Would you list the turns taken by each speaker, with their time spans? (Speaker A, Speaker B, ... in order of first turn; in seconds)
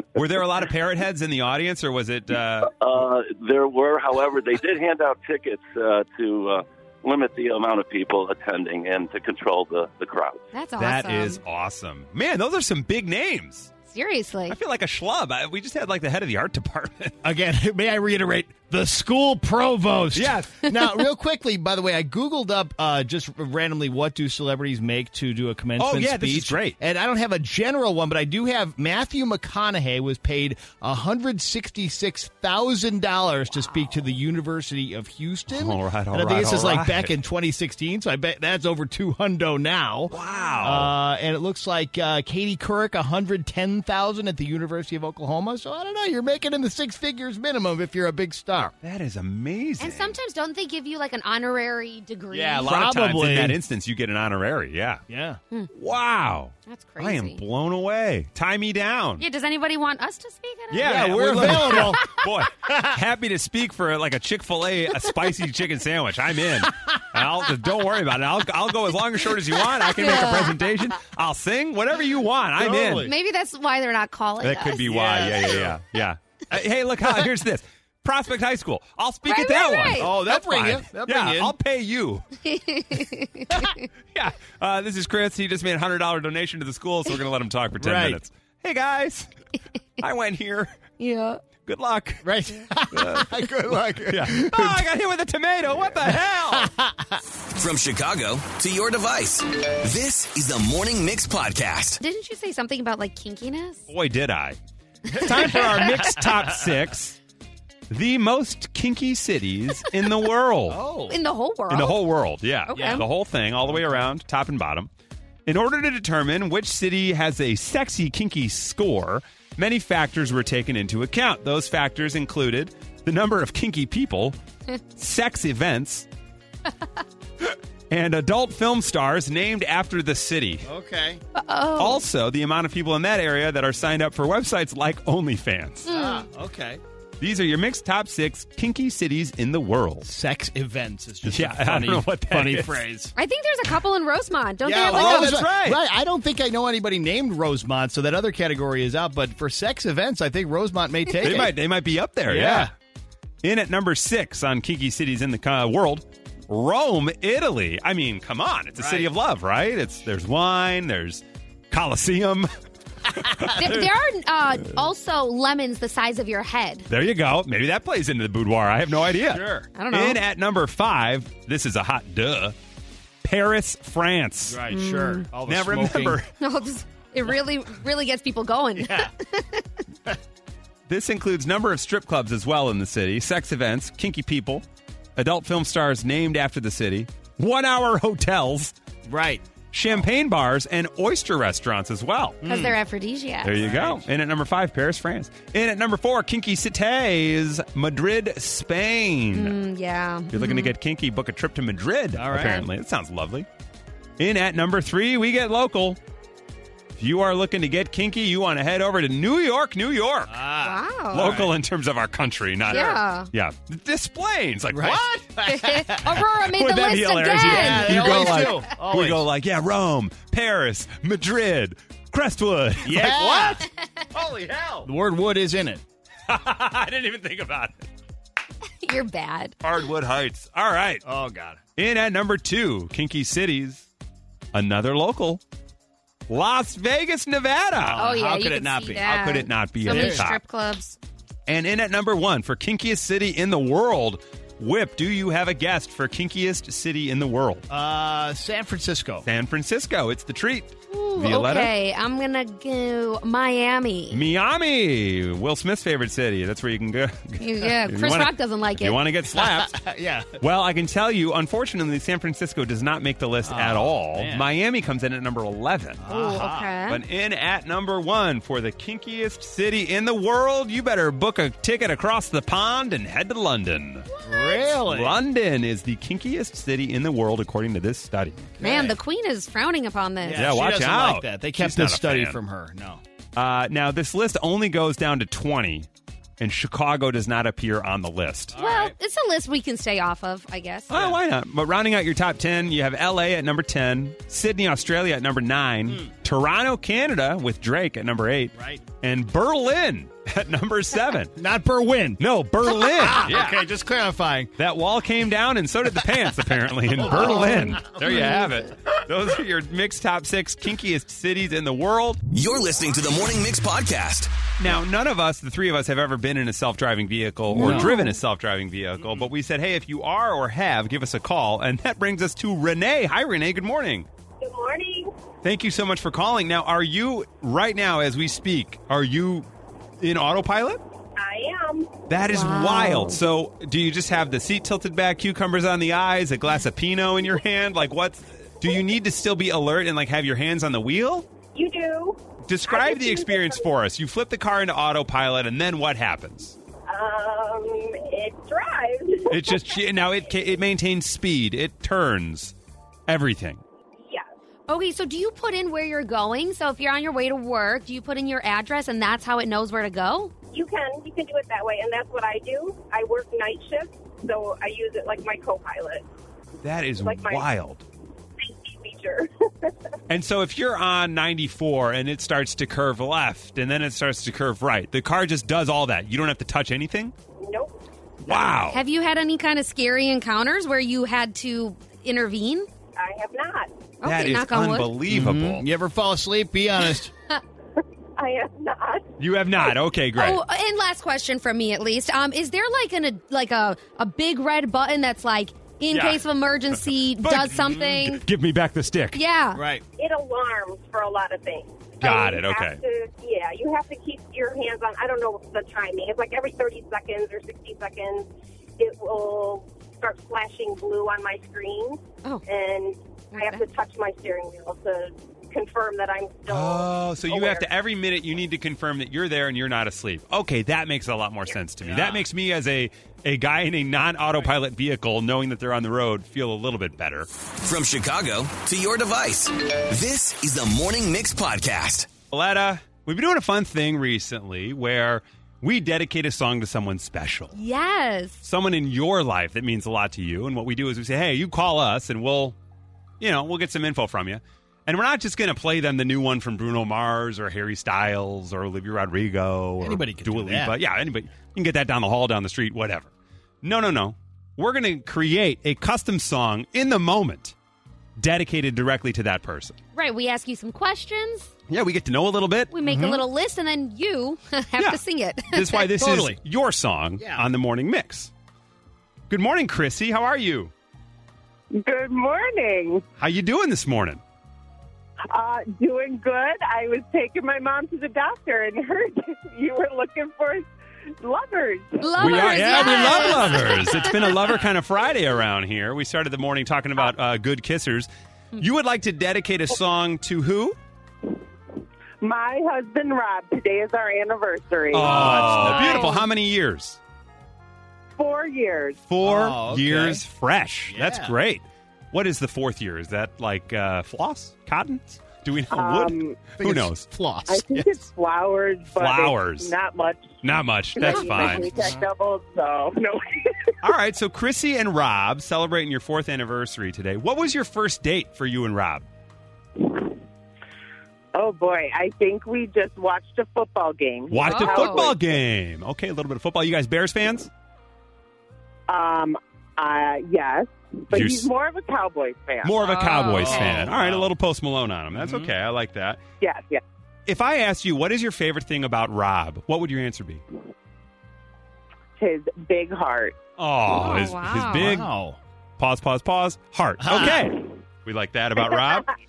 Speaker A: 0.1-2.7, 10.8-13.7, 14.5-17.1, 20.1-20.7, 25.8-26.8, 35.5-37.1, 40.1-40.9, 48.8-50.1, 52.3-55.0, 55.7-59.2, 60.7-73.1, 74.4-82.2, 84.1-89.3, 90.0-90.7, 91.6-92.3, 92.9-93.3, 94.0-96.7, 103.9-104.6, 105.1-107.2, 107.9-110.8, 111.7-114.9, 115.5-124.4, 124.9-126.1, 127.4-130.7, 131.8-135.9, 137.2-140.1, 141.2-142.9, 144.9-145.8, 151.2-152.7, 153.4-162.5, 163.1-163.9, 166.9-172.6, 173.2-174.6, 175.4-176.3, 180.9-184.6, 185.2-188.7, 189.7-192.4, 193.4-199.6, 200.3-203.5, 204.2-206.0, 206.9-210.4, 211.1-215.3, 216.6-224.9, 226.3-227.8, 229.6-231.0, 231.8-233.9, 234.5-235.4, 236.3-238.0, 239.0-240.4, 241.5-247.7, 249.2-251.7, 254.1-259.8, 260.4-266.0, 266.9-274.1, 274.8-278.4, 280.3-282.4, 283.4-285.9, 286.4-288.6, 290.9-301.4, 302.2-303.7, 304.6-312.2, 314.6-324.1, 325.4-329.5, 330.0-330.8, 332.1-341.3, 342.4-346.6, 349.3-352.5, 353.1-353.6, 366.6-367.8, 370.1-377.1, 378.2-378.8, 384.0-385.6, 389.2-390.4, 395.9-396.2, 397.2-399.2, 402.0-402.8, 416.5-427.3, 432.3-437.6, 438.4-442.6, 443.2-453.1, 453.6-457.5, 458.2-459.8, 461.7-462.7, 464.8-468.3, 469.3-470.7, 473.2-474.2, 482.2-490.8, 494.9-497.0, 499.1-507.1, 508.9-509.7, 510.4-511.9, 513.8-519.0, 524.3-527.5, 531.1-531.5, 532.6-536.2, 537.3-540.4, 543.6-545.1, 545.8-549.1
Speaker B: 2.8-10.4
Speaker C: 10.5-11.4, 13.9-14.6, 49.8-52.7, 56.7-57.4, 59.2-62.1, 70.0-70.7, 73.0-74.9, 79.2-80.1, 82.4-83.9, 91.0-91.4, 102.0-103.8, 111.1-112.0, 112.7-113.0, 131.3-132.0, 135.8-136.3, 143.2-145.4, 163.6-166.9, 169.8-170.2, 174.7-175.2, 176.4-179.7, 192.4-193.6, 199.3-200.7, 210.6-211.4, 212.7-213.3, 215.4-218.6, 228.8-229.6, 238.0-241.0, 250.9-254.2, 257.4-259.0, 266.1-267.0, 274.1-274.5, 278.6-280.4, 288.6-291.1, 307.4-308.4, 317.5-318.2, 332.3-333.2, 354.7-360.3, 378.6-382.7, 384.0-384.9, 390.1-398.2, 399.1-399.6, 413.3-413.6, 437.5-438.4, 459.9-461.5, 462.7-465.9, 482.0-484.1, 495.1-496.2, 511.0-511.7, 524.4-525.1, 532.8-533.9, 543.9-545.0
Speaker D: 17.2-48.7, 52.4-53.6, 55.1-55.4, 60.8-63.0, 66.6-67.2, 72.6-73.1, 74.8-75.8, 80.0-81.5, 87.8-88.2, 92.2-94.9, 96.0-97.2, 105.1-106.7, 110.7-111.2, 112.7-113.0, 130.6-131.2, 135.9-136.8, 140.0-143.1, 144.6-151.5, 152.3-152.7, 158.8-159.1, 163.2-163.5, 169.3-169.7, 174.5-176.2, 178.7-179.1, 189.1-189.4, 192.4-192.8, 193.6-194.0, 202.1-202.7, 210.3-211.5, 214.7-216.3, 217.3-219.3, 222.8-223.7, 224.8-225.8, 231.0-231.6, 237.8-239.2, 239.8-240.3, 247.7-249.2, 259.3-260.3, 263.4-264.5, 266.0-266.8, 274.2-275.2, 278.6-279.0, 280.2-283.0, 288.5-288.9, 298.5-298.8, 301.3-304.5, 305.9-308.3, 317.6-317.9, 385.1-387.1, 399.5-399.8, 421.8-422.2, 449.8-450.8, 462.8-463.2, 466.0-466.4, 467.2-467.4, 495.0-496.0, 499.2-500.2, 500.9-501.3, 506.6-508.0, 511.7-512.0, 533.3-534.3, 535.1-535.5, 544.7-545.4, 547.0-547.5
Speaker E: 97.5-102.0, 312.3-314.3, 427.6-432.1
Speaker F: 324.4-325.1, 331.2-331.9, 341.5-343.7, 346.9-350.3, 360.5-366.1, 367.0-367.5, 368.4-369.7, 377.4-377.7, 382.9-383.7, 388.2-389.1, 399.9-417.7
Speaker G: 471.7-473.0, 475.3-480.7, 481.2-483.2, 492.2-495.3, 498.2-499.0, 505.7-506.4, 507.5-510.3, 510.9-513.5, 519.8-520.1, 521.3-525.4, 528.9-532.8, 536.4-536.8, 542.2-543.4